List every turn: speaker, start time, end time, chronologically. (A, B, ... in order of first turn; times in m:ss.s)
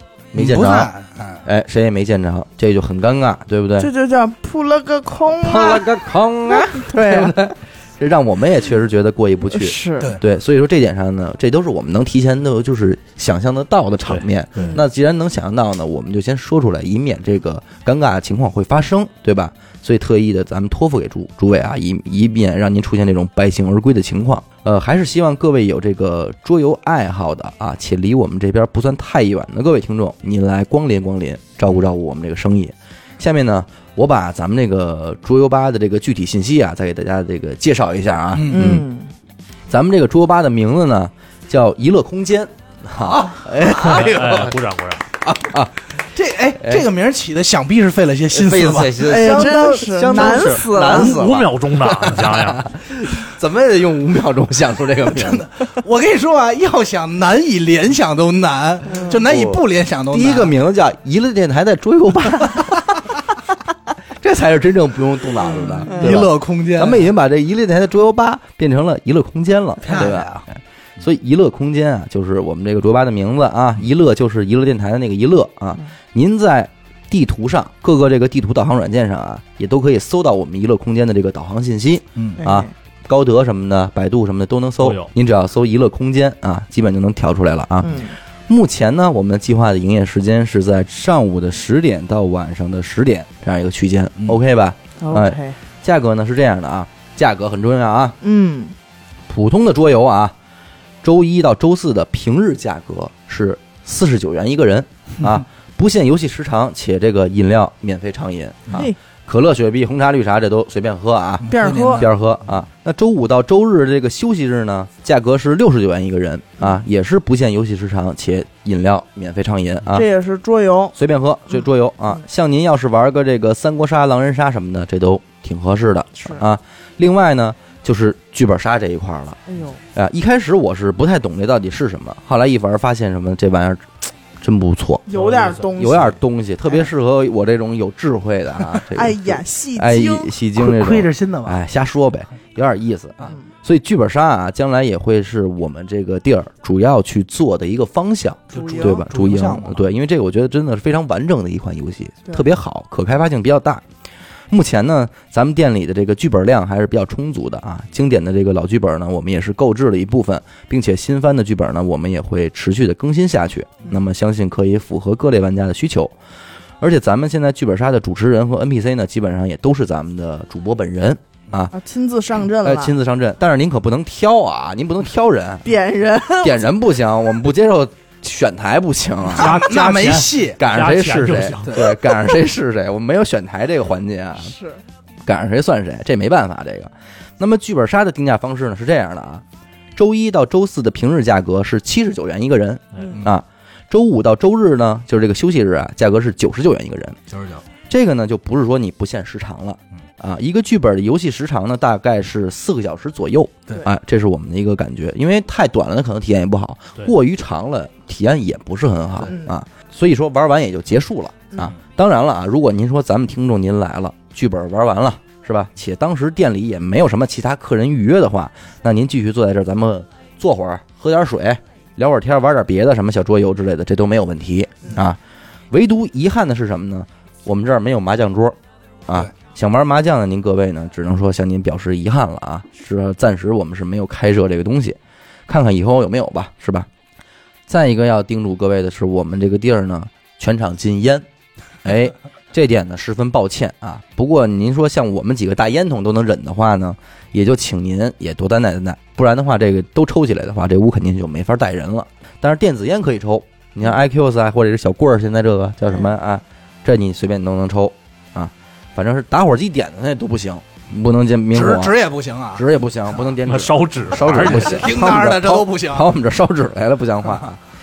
0:00.3-0:00.9 A
0:00.3-0:01.4 B
0:01.4-0:03.9 A
0:03.8-0:05.9 C
0:05.4-0:38.9 A
0:06.5-0:07.5 C
0:09.5-0:10.1 C
0:14.1-0:14.7 D
0:14.6-0:14.8 C
0:38.3-0:38.8 B
0:38.5-0:39.1 C
0:39.7-0:44.6 A
0:43.0-0:43.8 B
0:43.8-0:45.0 D
0:45.2-0:45.7 A
0:46.0-0:49.5 B
0:46.6-0:46.9 A
0:48.3-0:55.5 A
0:49.0-0:51.2 C
0:50.3-0:52.7 D
0:55.1-1:00.5 B
0:58.9-0:59.1 C
0:59.2-1:02.8 A
1:04.2-1:38.2 A
1:05.8-1:07.1 B
1:09.8-1:10.4 B
1:22.2-1:22.4 B
1:22.4-1:22.7 C
1:24.8-1:25.1 D
1:27.8-1:28.1 C
1:35.0-1:35.6 C
1:38.2-1:38.7 C
1:39.3-1:40.3 A
1:41.0-2:00.0 A
1:51.4-1:52.1 B
1:51.5-1:52.0 C
1:59.9-2:00.9 C
2:01.0-2:09.4 A
2:06.2-2:06.4 C
2:09.5-2:09.8 C
2:09.9-2:15.1 A
2:15.1-2:16.1 C
2:15.2-2:15.6 D
2:15.6-2:33.8 A
2:18.9-2:20.3 C
2:20.6-2:21.6 B
2:28.5-2:29.8 B
2:28.5-2:29.1 C
2:34.5-2:46.1 A
2:46.8-2:51.7 A
2:51.7-2:52.9 C
2:52.6-2:55.8 A
2:55.6-2:56.7 C
2:56.4-2:59.6 A
2:59.3-3:00.6 B
2:59.4-3:01.9 D
3:00.5-3:04.5 A
3:04.5-3:04.8 C
3:05.2-3:09.4 A
3:10.0-3:17.2 A
3:17.3-3:17.6 B
3:17.9-3:45.2 A
3:45.7-3:55.0 A
3:55.5-3:56.9 A
3:57.7-4:01.2 A
4:01.8-4:22.0 A
4:21.5-4:22.6 B
4:22.5-4:27.6 A
4:23.4-4:24.9 D
4:24.3-4:26.1 B